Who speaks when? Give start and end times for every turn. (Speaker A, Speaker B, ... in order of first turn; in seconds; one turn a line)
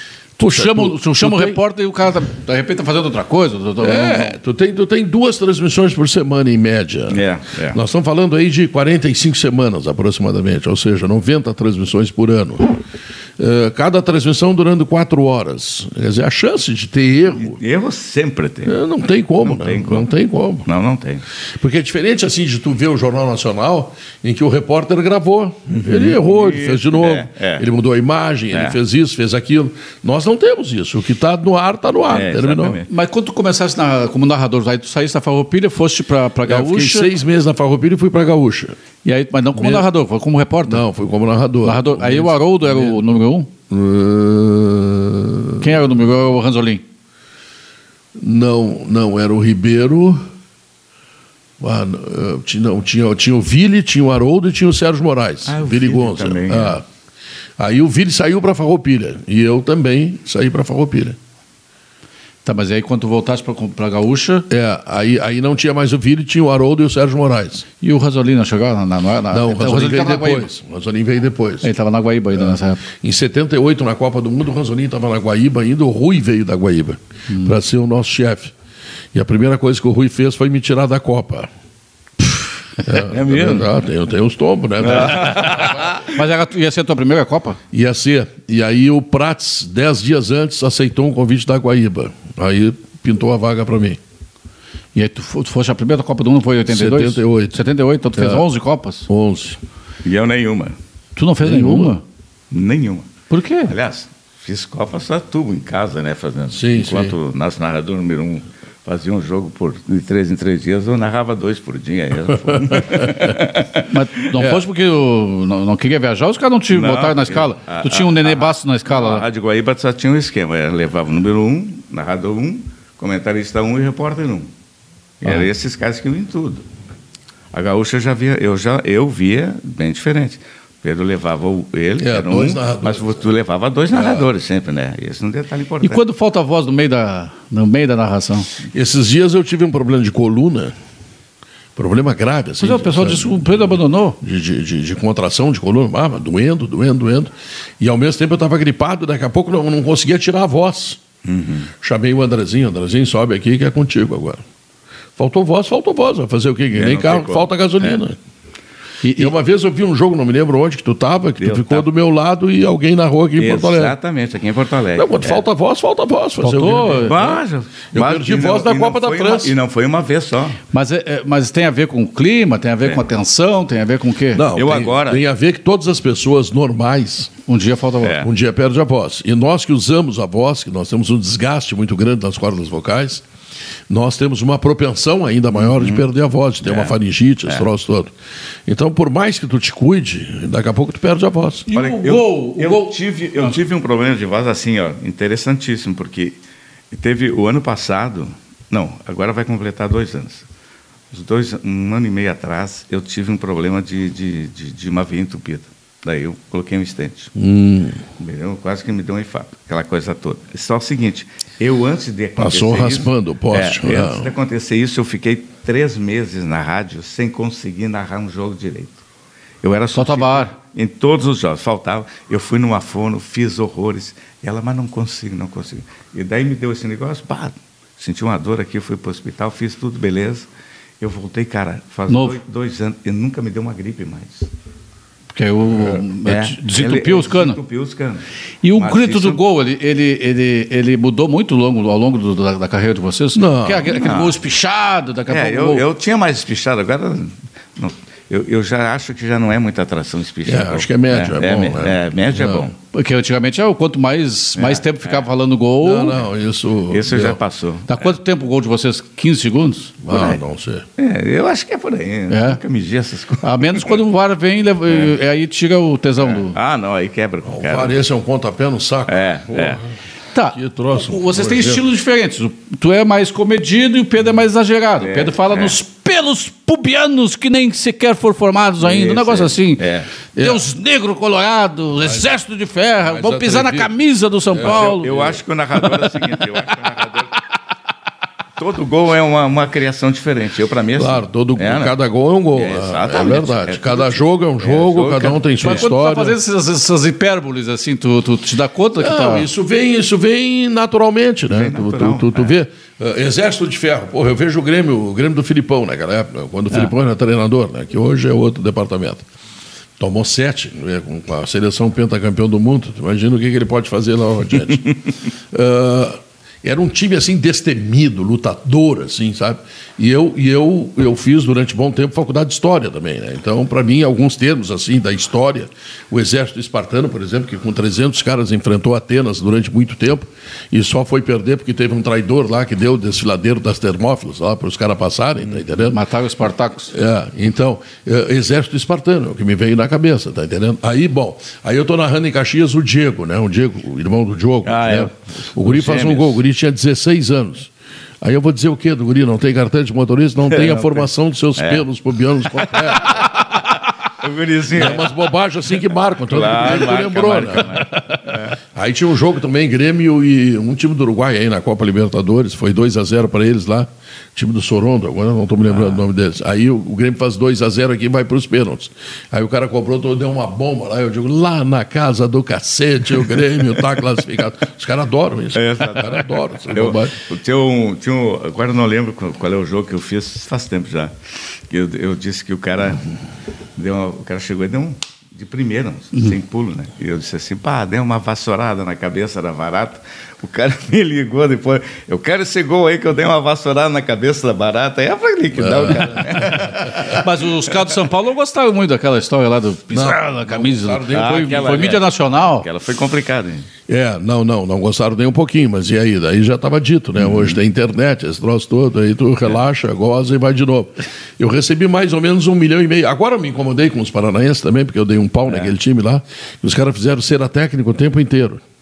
Speaker A: 0.4-1.6
Speaker B: 0.4-4.4
Speaker A: 3.8-12.8
Speaker C: 7.1-7.8
Speaker A: 13.4-17.6
Speaker C: 17.4-18.8
Speaker A: 18.6-20.7
Speaker C: 19.4-20.1
Speaker C: 20.6-21.2
Speaker A: 21.6-32.8
Speaker C: 25.7-27.6
Speaker C: 28.5-28.8
Speaker C: 32.1-32.9
Speaker B: 32.9-37.1
Speaker A: 36.5-38.8
Speaker B: 39.0-40.8
Speaker A: 39.5-39.9
Speaker A: 40.6-43.0
Speaker B: 41.6-43.5
Speaker A: 43.7-45.8
Speaker B: 45.6-46.8
Speaker A: 48.2-50.2
Speaker A: 51.6-56.8
Speaker C: 55.5-56.8
Speaker A: 57.6-61.2
Speaker B: 62.5-64.5
Speaker A: 64.5-67.7
Speaker B: 67.8-70.5
Speaker A: 69.3-71.7
Speaker B: 71.6-72.8
Speaker A: 72.3-78.5
Speaker A: 79.1-81.5
Speaker A: 82.8-85.7
Speaker C: 83.0-83.7
Speaker C: 84.8-86.1
Speaker B: 86.0-87.6
Speaker A: 87.7-94.0
Speaker B: 95.0-99.1
Speaker A: 96.7-97.6
Speaker A: 98.2-98.5
Speaker A: 99.1-99.6
Speaker C: 100.0-100.8
Speaker B: 101.2-102.0
Speaker A: 101.4-101.9
Speaker C: 102.5-103.1
Speaker B: 103.3-103.7
Speaker C: 103.7-114.6
Speaker A: 106.5-107.2
Speaker A: 112.5-113.1
Speaker B: 113.9-119.2
Speaker C: 116.7-124.5
Speaker C: 125.2-126.7
Speaker C: 127.5-136.0
Speaker A: 132.0-133.3
Speaker A: 133.9-134.3
Speaker B: 135.8-138.5
Speaker A: 138.7-140.7
Speaker A: 141.8-151.0
Speaker B: 142.6-144.2
Speaker C: 151.2-151.7
Speaker A: 151.8-154.4
Speaker A: 155.2-158.2
Speaker C: 156.7-158.0
Speaker B: 159.0-159.3
Speaker A: 159.2-164.0
Speaker C: 161.4-161.9
Speaker C: 163.4-165.4
Speaker A: 165.0-167.3
Speaker B: 166.4-167.4
Speaker C: 166.8-170.6
Speaker A: 167.9-169.6
Speaker B: 170.7-174.5
Speaker A: 174.3-177.4
Speaker C: 174.5-175.2
Speaker B: 177.5-178.2
Speaker C: 178.0-178.3
Speaker A: 178.2-183.2
Speaker A: 183.9-188.1
Speaker C: 185.6-186.1
Speaker C: 186.6-186.9
Speaker A: 188.7-191.7
Speaker B: 191.7-193.6
Speaker C: 191.7-196.4
Speaker C: 196.9-200.5
Speaker C: 201.1-207.3
Speaker A: 207.4-208.0
Speaker C: 208.2-219.0
Speaker A: 212.4-214.3
Speaker C: 219.6-230.5
Speaker B: 219.9-220.6
Speaker C: 231.0-234.5
Speaker B: 232.1-232.4
Speaker B: 235.3-237.6
Speaker C: 235.8-238.2
Speaker B: 238.6-245.8
Speaker C: 238.8-239.4
Speaker A: 243.3-243.9
Speaker C: 243.9-244.4
Speaker C: 245.3-252.7
Speaker A: 250.5-252.7
Speaker B: 252.9-256.2
Speaker C: 254.6-255.2
Speaker A: 255.8-257.4
Speaker C: 256.9-258.1
Speaker B: 257.9-260.0
Speaker A: 260.0-260.9
Speaker C: 260.1-260.4
Speaker C: 261.0-264.0
Speaker B: 262.3-262.6
Speaker B: 263.4-266.6
Speaker C: 266.2-268.0
Speaker A: 267.5-269.9
Speaker C: 269.1-269.8
Speaker B: 270.3-279.8
Speaker A: 270.5-271.8
Speaker C: 275.0-275.8
Speaker C: 278.8-280.1
Speaker A: 280.4-280.6
Speaker B: 280.4-285.4
Speaker A: 282.0-282.3
Speaker A: 283.0-283.9
Speaker A: 284.5-285.3
Speaker C: 284.6-287.4
Speaker C: 288.6-291.9
Speaker A: 291.0-296.4
Speaker C: 292.5-295.8
Speaker B: 295.6-299.5
Speaker A: 299.0-309.3
Speaker C: 301.5-302.5
Speaker A: 310.0-314.9
Speaker A: 315.5-336.0
Speaker B: 335.8-336.9
Speaker A: 336.9-347.7
Speaker C: 344.6-346.4
Speaker A: 348.2-353.3
Speaker C: 350.5-351.1
Speaker C: 351.6-351.9
Speaker C: 352.4-355.1
Speaker A: 354.7-377.2
Speaker C: 356.3-358.6
Speaker C: 365.7-366.0
Speaker C: 375.5-381.1
Speaker C: 381.7-383.1
Speaker C: 383.8-397.3
Speaker A: 395.6-397.2
Speaker B: 396.9-402.7
Speaker A: 399.9-401.6
Speaker C: 401.1-403.7
Speaker A: 403.9-418.6
Speaker C: 415.5-415.7